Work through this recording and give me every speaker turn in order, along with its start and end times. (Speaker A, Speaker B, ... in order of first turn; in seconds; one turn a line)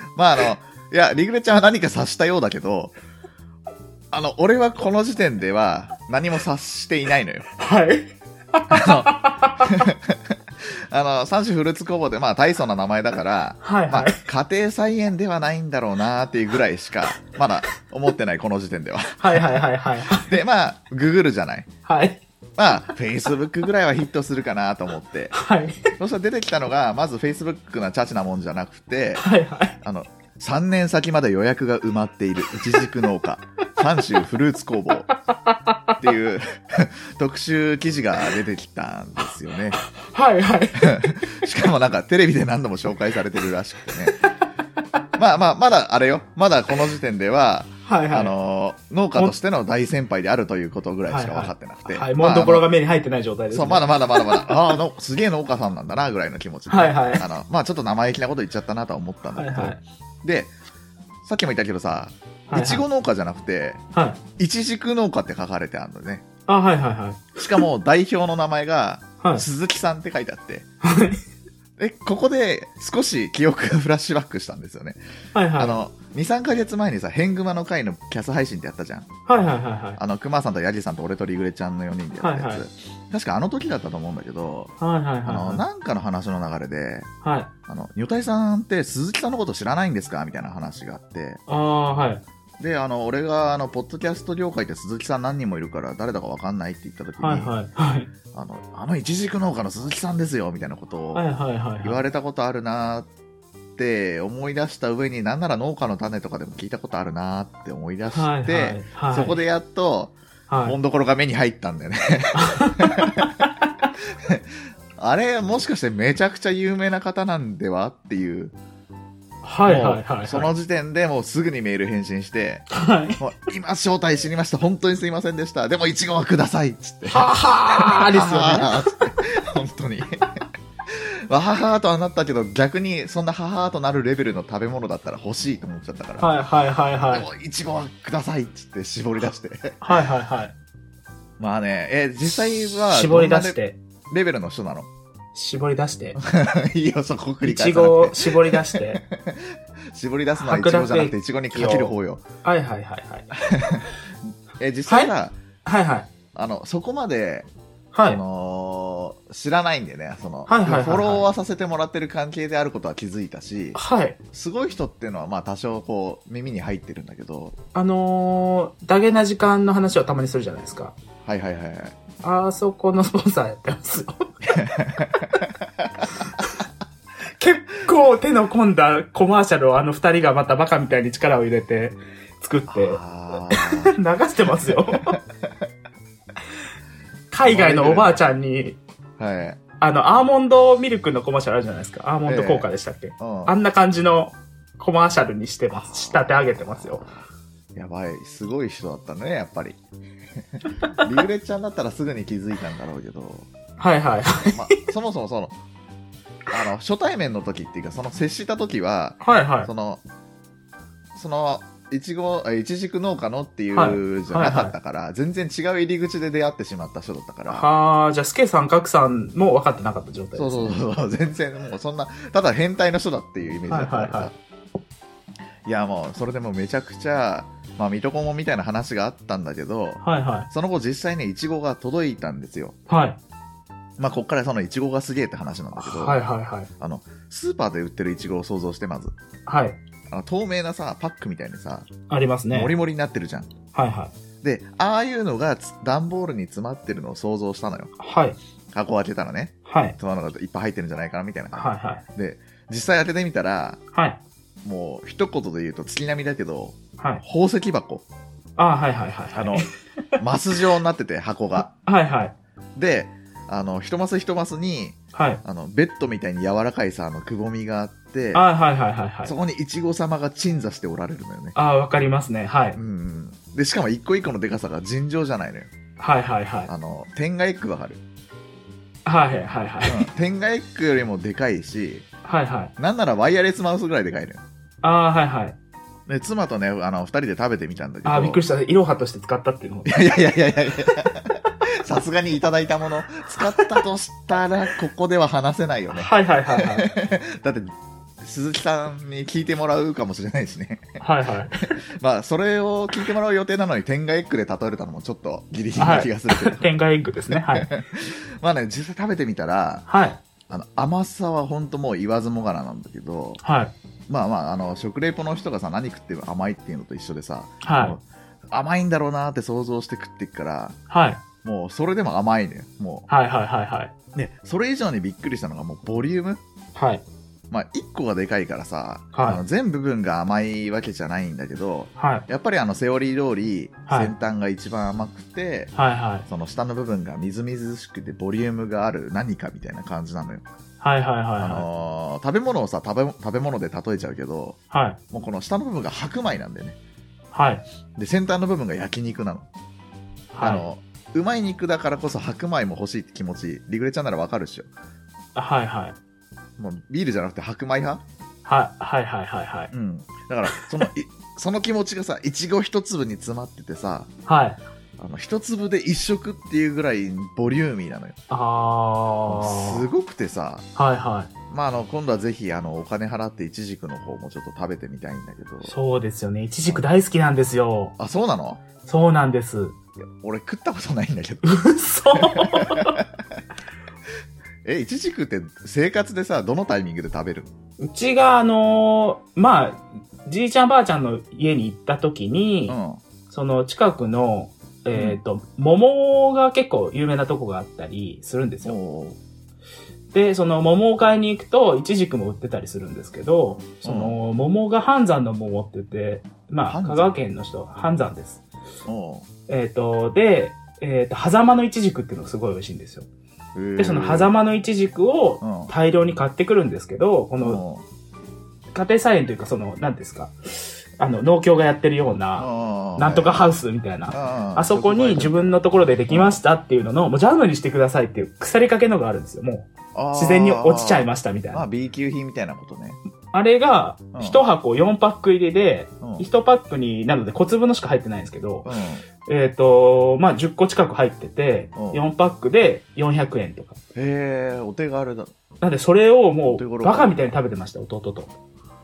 Speaker A: 0.1-2.9
Speaker A: 4.1-7.5
Speaker B: 7.6-9.9
Speaker A: 8.7-19.6
Speaker B: 13.6-14.2
Speaker B: 19.2-20.4
Speaker A: 20.1-21.7
Speaker B: 21.9-22.2
Speaker A: 22.6-25.4
Speaker B: 25.4-25.9
Speaker A: 26.0-29.3
Speaker B: 29.2-29.8
Speaker A: 29.8-35.1
Speaker B: 35.1-36.0
Speaker A: 36.0-39.8
Speaker B: 39.8-41.0
Speaker A: 40.8-44.2
Speaker A: 45.2-52.7
Speaker B: 47.9-48.4
Speaker B: 51.1-54.5
Speaker A: 53.5-60.5
Speaker B: 56.7-57.3
Speaker B: 59.3-59.8
Speaker A: 61.2-63.8
Speaker B: 62.5-62.8
Speaker B: 63.9-64.2
Speaker A: 64.4-66.2
Speaker B: 66.5-67.6
Speaker A: 67.4-70.7
Speaker B: 69.2-69.5
Speaker B: 70.8-71.2
Speaker A: 71.8-75.0
Speaker B: 75.3-75.8
Speaker A: 75.6-79.1
Speaker B: 79.3-80.0
Speaker A: 80.0-84.7
Speaker B: 82.2-82.6
Speaker B: 84.8-85.6
Speaker A: 85.3-87.1
Speaker B: 87.2-87.5
Speaker A: 87.7-91.4
Speaker B: 91.5-92.2
Speaker A: 92.6-97.5
Speaker B: 97.2-98.1
Speaker A: 98.3-101.3
Speaker B: 101.1-102.0
Speaker A: 101.8-103.1
Speaker A: 103.8-113.4
Speaker B: 108.1-109.4
Speaker B: 110.5-110.8
Speaker B: 112.3-113.5
Speaker A: 114.0-118.5
Speaker B: 119.4-120.5
Speaker A: 119.7-122.7
Speaker B: 122.7-123.2
Speaker A: 123.2-136.3
Speaker B: 127.1-128.9
Speaker B: 136.2-137.3
Speaker A: 137.1-139.8
Speaker B: 139.8-140.5
Speaker A: 141.4-143.6
Speaker B: 142.7-143.8
Speaker A: 144.1-144.9
Speaker B: 145.3-146.2
Speaker A: 146.2-152.2
Speaker B: 147.4-149.0
Speaker B: 150.4-153.3
Speaker A: 153.4-153.9
Speaker A: 154.6-155.4
Speaker B: 154.9-155.1
Speaker B: 155.7-156.1
Speaker A: 156.3-157.5
Speaker B: 157.9-158.2
Speaker A: 158.1-163.8
Speaker B: 160.5-161.2
Speaker B: 163.8-164.2
Speaker A: 164.3-167.6
Speaker B: 167.8-170.9
Speaker A: 171.2-172.0
Speaker B: 172.2-174.7
Speaker A: 174.6-176.1
Speaker B: 177.4-185.2
Speaker A: 182.7-183.9
Speaker A: 184.7-185.2
Speaker B: 187.3-188.8
Speaker A: 187.4-188.2
Speaker A: 189.2-189.6
Speaker B: 189.8-197.1
Speaker A: 192.3-192.7
Speaker A: 193.2-193.6
Speaker A: 195.8-197.1
Speaker A: 197.8-199.8
Speaker A: 200.4-203.5
Speaker B: 203.8-204.8
Speaker A: 204.5-205.6
Speaker A: 206.5-210.0
Speaker B: 209.2-209.7
Speaker A: 211.2-217.7
Speaker B: 213.7-214.8
Speaker B: 217.5-220.8
Speaker A: 220.3-224.3
Speaker B: 223.7-224.3
Speaker A: 225.7-232.8
Speaker B: 230.0-230.5
Speaker B: 232.9-233.2
Speaker A: 234.0-236.2
Speaker B: 235.8-236.7
Speaker A: 236.8-239.1
Speaker B: 239.5-239.8
Speaker A: 240.1-241.9
Speaker B: 242.1-242.7
Speaker A: 242.5-243.5
Speaker B: 243.7-244.1
Speaker A: 244.4-247.9
Speaker B: 248.0-248.4
Speaker A: 248.7-253.8
Speaker B: 249.7-250.0
Speaker B: 251.5-252.0
Speaker B: 253.9-254.2
Speaker A: 254.6-258.1
Speaker B: 258.6-259.7
Speaker A: 259.3-259.7
Speaker A: 260.2-261.7
Speaker B: 261.7-262.4
Speaker A: 262.8-268.5
Speaker B: 265.1-265.4
Speaker B: 268.3-269.3
Speaker A: 269.2-271.6
Speaker B: 271.6-272.8
Speaker A: 272.8-275.7
Speaker B: 276.0-276.7
Speaker A: 276.7-278.0
Speaker B: 279.1-280.1
Speaker A: 279.9-282.1
Speaker B: 282.2-282.7
Speaker A: 282.8-284.4
Speaker B: 284.8-285.6
Speaker A: 286.1-288.4
Speaker B: 288.1-290.2
Speaker A: 289.9-301.0
Speaker B: 293.5-293.8
Speaker B: 295.9-296.9
Speaker B: 301.0-301.8
Speaker A: 301.9-306.7
Speaker B: 305.8-307.7
Speaker A: 307.3-309.9
Speaker B: 309.9-310.2
Speaker A: 310.5-313.4
Speaker B: 313.4-313.7
Speaker A: 314.1-320.8
Speaker B: 317.6-318.0
Speaker B: 320.9-321.2
Speaker A: 321.4-323.1
Speaker B: 323.1-323.9
Speaker A: 324.1-326.4
Speaker B: 326.8-327.0
Speaker A: 327.5-335.7
Speaker B: 329.1-329.4
Speaker B: 332.0-332.3
Speaker B: 333.9-334.1
Speaker B: 335.8-336.3
Speaker A: 336.3-340.4
Speaker B: 340.8-341.6
Speaker A: 341.4-344.6
Speaker B: 344.7-345.0
Speaker A: 345.1-346.8
Speaker B: 347.3-347.6
Speaker A: 348.0-349.5
Speaker B: 350.3-350.6
Speaker A: 350.4-354.7
Speaker B: 355.4-356.0
Speaker A: 356.6-358.0
Speaker B: 358.4-359.7
Speaker A: 359.7-364.1
Speaker B: 364.3-364.6
Speaker A: 365.0-368.2
Speaker B: 368.3-369.9
Speaker A: 369.3-370.7
Speaker B: 370.8-371.3
Speaker A: 371.5-375.8
Speaker B: 375.6-377.9
Speaker A: 378.0-378.6
Speaker B: 378.9-379.8
Speaker A: 380.2-381.6
Speaker B: 381.4-383.0
Speaker A: 382.1-383.2
Speaker A: 384.6-387.5
Speaker B: 387.8-392.8
Speaker A: 392.7-393.0
Speaker B: 393.3-398.8
Speaker A: 394.9-395.2
Speaker A: 398.6-399.2
Speaker B: 400.1-408.4
Speaker A: 403.8-404.2
Speaker A: 406.7-407.1
Speaker A: 408.9-409.3
Speaker B: 409.5-413.1
Speaker A: 413.6-414.3
Speaker B: 413.8-417.6
Speaker A: 415.4-415.7
Speaker A: 417.4-417.8
Speaker B: 418.7-431.7
Speaker A: 422.4-423.5
Speaker A: 424.1-426.4
Speaker A: 429.9-433.0
Speaker B: 433.3-438.7
Speaker A: 434.1-434.4
Speaker A: 436.0-436.3
Speaker A: 438.6-439.0
Speaker B: 439.2-443.8
Speaker A: 441.8-442.0
Speaker A: 443.9-445.3
Speaker B: 445.6-448.3
Speaker A: 446.5-447.3